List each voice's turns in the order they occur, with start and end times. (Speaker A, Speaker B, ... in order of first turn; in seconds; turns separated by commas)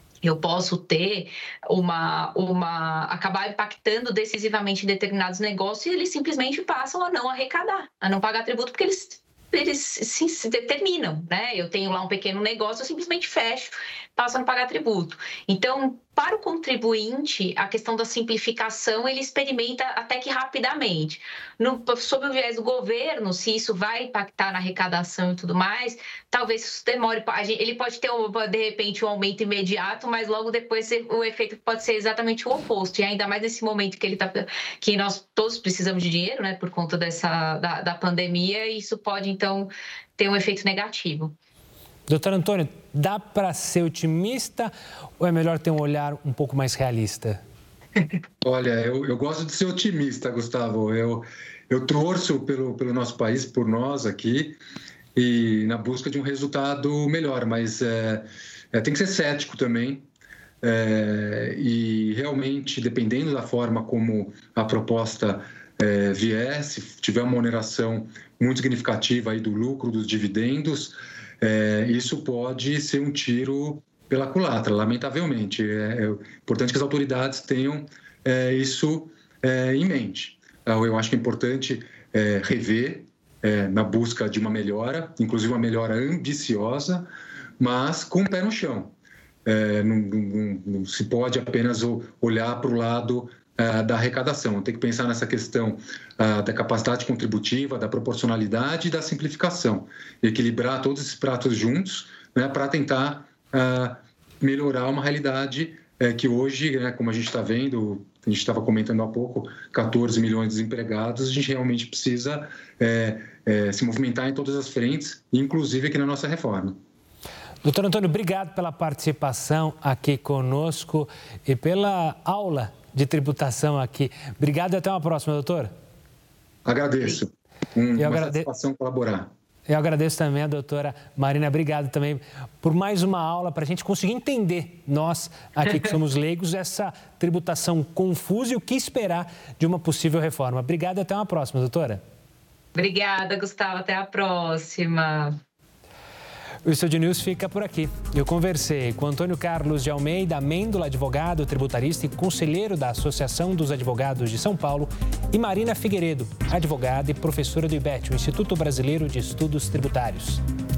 Speaker A: 0.2-41.4, Speaker B: 42.1-47.4, Speaker C: 48.4-54.6, Speaker C: 55.1-60.1, Speaker C: 60.6-87.1, Speaker C: 87.6-88.9, Speaker C: 89.5-116.8, Speaker B: 117.6-125.7, Speaker C: 126.7-129.3, Speaker B: 128.0-128.5, Speaker B: 129.7-142.0, Speaker A: 142.8-145.4, Speaker B: 146.7-160.4